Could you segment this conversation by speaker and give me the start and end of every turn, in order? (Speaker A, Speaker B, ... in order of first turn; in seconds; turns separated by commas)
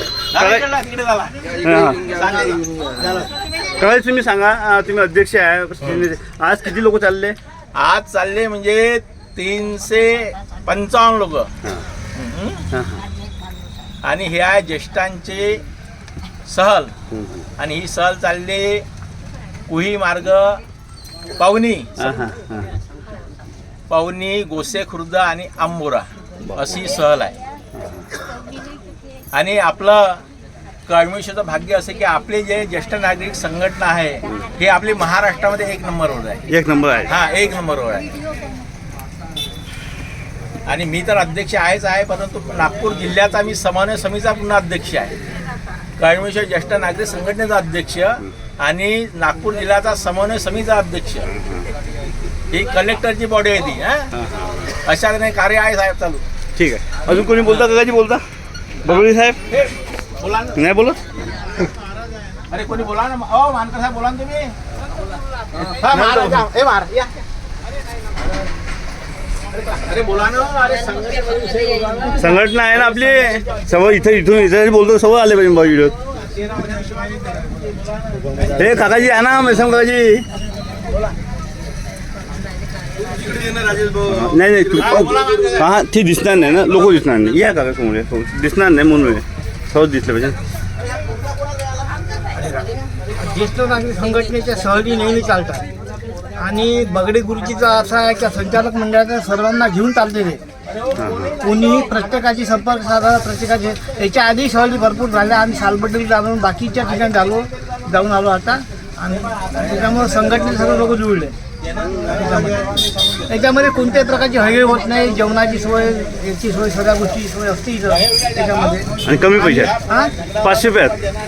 Speaker A: 0.3-3.2, Speaker B: 0.4-0.7, Speaker B: 1.6-2.0, Speaker B: 3.6-7.4, Speaker A: 7.8-11.5, Speaker A: 12.2-12.7, Speaker B: 12.7-13.1, Speaker A: 14.0-15.6, Speaker A: 16.5-16.9, Speaker B: 17.1-17.5, Speaker A: 17.6-18.9, Speaker A: 19.7-20.6, Speaker A: 21.4-22.1, Speaker B: 22.0-22.7, Speaker A: 23.9-27.4, Speaker B: 27.8-28.1, Speaker A: 29.3-30.2, Speaker A: 30.9-36.5, Speaker B: 36.5-37.1, Speaker A: 37.1-38.1, Speaker A: 40.7-45.2, Speaker A: 46.0-51.3, Speaker A: 52.5-54.1, Speaker B: 54.1-54.5, Speaker A: 54.9-56.2, Speaker B: 56.6-58.2, Speaker B: 58.8-59.4, Speaker A: 60.2-60.6, Speaker B: 60.6-61.0, Speaker A: 62.5-64.5, Speaker A: 65.7-67.2, Speaker B: 66.0-66.4, Speaker A: 69.5-72.2, Speaker B: 72.1-76.0, Speaker A: 76.3-77.6, Speaker B: 78.5-80.3, Speaker A: 83.2-84.0, Speaker B: 84.0-90.4, Speaker A: 84.8-85.6, Speaker C: 93.2-95.7, Speaker C: 96.4-100.4, Speaker B: 101.0-101.3, Speaker C: 101.4-111.3, Speaker C: 112.0-112.6, Speaker C: 113.3-118.9, Speaker B: 119.0-119.7, Speaker C: 119.5-120.1, Speaker B: 120.4-121.0